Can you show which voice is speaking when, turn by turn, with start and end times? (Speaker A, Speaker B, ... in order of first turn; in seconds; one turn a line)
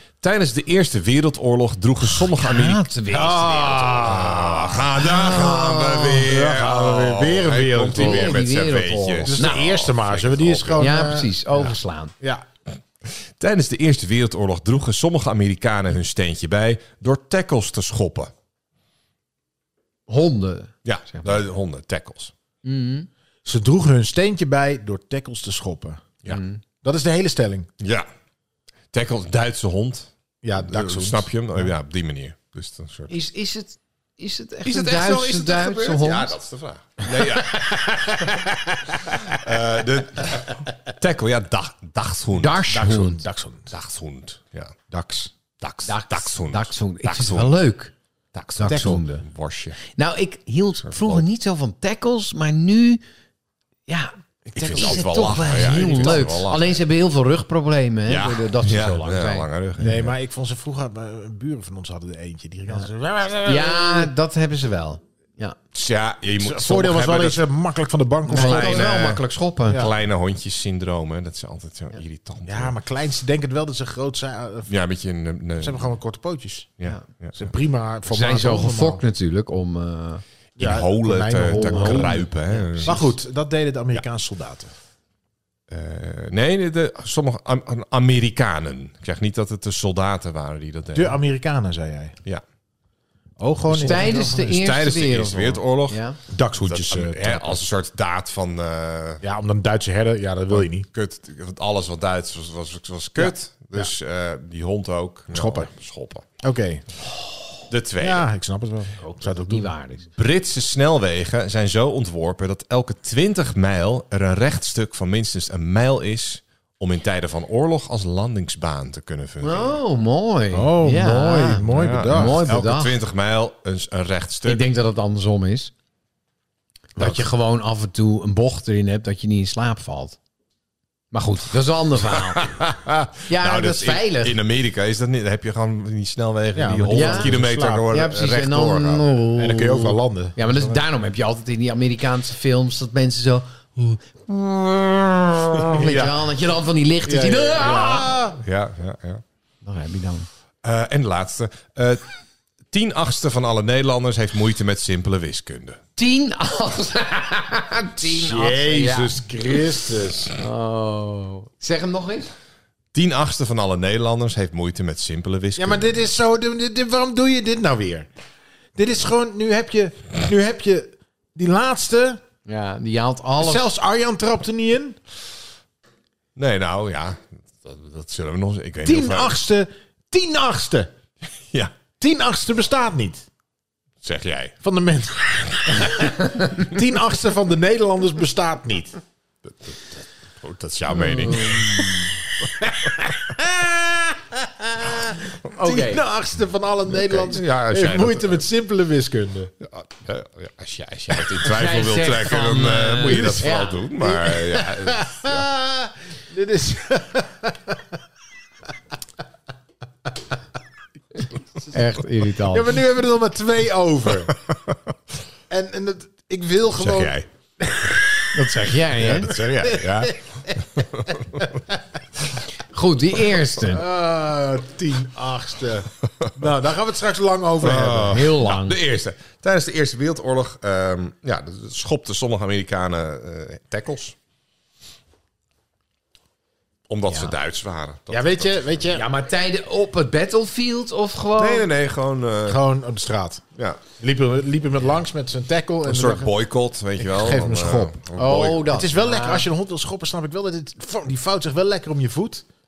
Speaker A: 0.2-2.8
Speaker B: 2.3-4.3
Speaker C: 3.1-4.9
Speaker A: 4.0-10.8
Speaker B: 4.9-6.3
Speaker C: 6.2-8.4
Speaker B: 7.9-9.7
Speaker C: 9.2-11.6
Speaker B: 10.8-12.1
Speaker A: 13.3-18.3
Speaker B: 20.1-21.4
Speaker A: 20.8-22.3
Speaker B: 22.6-23.1
Speaker C: 23.4-26.0
Speaker B: 26.3-26.6
Speaker C: 26.8-27.7
Speaker A: 27.8-28.1
Speaker A: 28.9-33.1
Speaker C: 30.4-31.7
Speaker B: 33.1-36.3
Speaker A: 34.6-42.7
Speaker C: 37.6-39.4
Speaker B: 42.3-43.2
Speaker C: 42.7-43.7
Speaker A: 43.7-44.8
Speaker C: 44.9-45.3
Speaker A: 45.6-47.5
Speaker B: 45.8-47.9
Speaker A: 48.3-49.8
Speaker B: 48.6-49.2
Speaker C: 48.6-49.0
Speaker B: 49.9-53.0
Speaker A: 50.8-51.2
Speaker B: 53.9-59.5
Speaker A: 54.5-56.8
Speaker C: 54.6-55.0
Speaker A: 58.1-60.0
Speaker C: 59.8-64.1
Speaker B: 63.4-65.6
Speaker A: 65.7-67.4
Speaker C: 66.4-69.0
Speaker B: 68.3-69.8
Speaker A: 68.3-72.7
Speaker C: 72.5-74.7
Speaker A: 74.7-75.8
Speaker C: 75.6-76.8
Speaker A: 76.8-77.4
Speaker C: 77.3-79.0
Speaker B: 78.1-80.2
Speaker C: 80.6-82.3
Speaker A: 80.6-83.0
Speaker B: 81.5-83.0
Speaker C: 82.8-84.7
Speaker A: 85.7-91.2
Speaker C: 90.9-92.2
Speaker C: 93.4-94.6
Speaker B: 93.7-96.2
Speaker A: 93.8-96.0
Speaker C: 96.3-97.6
Speaker A: 96.6-99.2
Speaker C: 99.2-100.9
Speaker A: 100.8-106.2
Speaker C: 103.2-103.9
Speaker C: 105.3-105.7
Speaker C: 106.4-106.8
Speaker A: 107.7-108.2
Speaker C: 108.0-109.7
Speaker B: 109.0-110.1
Speaker A: 110.2-119.7
Speaker B: 119.4-123.0
Speaker C: 120.5-122.4
Speaker A: 121.7-124.6
Speaker B: 124.4-125.7
Speaker B: 127.0-130.2
Speaker B: 131.1-132.5
Speaker A: 132.3-139.1
Speaker B: 133.3-134.4
Speaker C: 136.5-137.9
Speaker B: 136.9-137.3
Speaker B: 137.9-148.2
Speaker C: 139.4-140.8
Speaker C: 145.7-146.3
Speaker C: 147.1-148.4
Speaker A: 148.4-149.2
Speaker B: 149.6-150.3
Speaker A: 150.6-152.0
Speaker A: 152.7-155.8
Speaker B: 156.0-159.6
Speaker C: 158.0-160.3
Speaker B: 160.4-162.3
Speaker A: 162.9-165.8
Speaker C: 165.6-168.1
Speaker C: 168.8-172.2
Speaker B: 172.4-173.7
Speaker C: 173.4-175.0
Speaker A: 176.3-179.4
Speaker C: 178.8-180.9
Speaker C: 182.0-183.2
Speaker A: 184.0-184.5
Speaker C: 184.6-189.0
Speaker B: 186.2-186.5
Speaker A: 189.4-192.1
Speaker B: 190.9-192.1
Speaker C: 192.6-199.5
Speaker B: 195.4-196.0
Speaker A: 197.0-198.4
Speaker A: 199.6-205.5
Speaker B: 201.4-203.8
Speaker C: 204.0-208.0
Speaker B: 211.7-212.8
Speaker C: 212.5-214.4
Speaker C: 215.5-218.3
Speaker A: 216.8-217.2
Speaker B: 218.3-219.3
Speaker C: 218.9-220.6
Speaker A: 219.2-220.2
Speaker A: 220.8-221.4
Speaker B: 222.7-223.8
Speaker C: 223.7-228.3
Speaker A: 227.6-234.1
Speaker B: 228.0-228.8
Speaker A: 236.9-238.8
Speaker B: 237.1-237.3
Speaker C: 238.1-239.1
Speaker B: 238.9-241.7
Speaker A: 241.4-242.6
Speaker C: 242.5-243.4
Speaker C: 244.0-246.3
Speaker A: 245.8-248.7
Speaker C: 247.0-248.0
Speaker B: 248.2-249.5
Speaker C: 248.6-252.4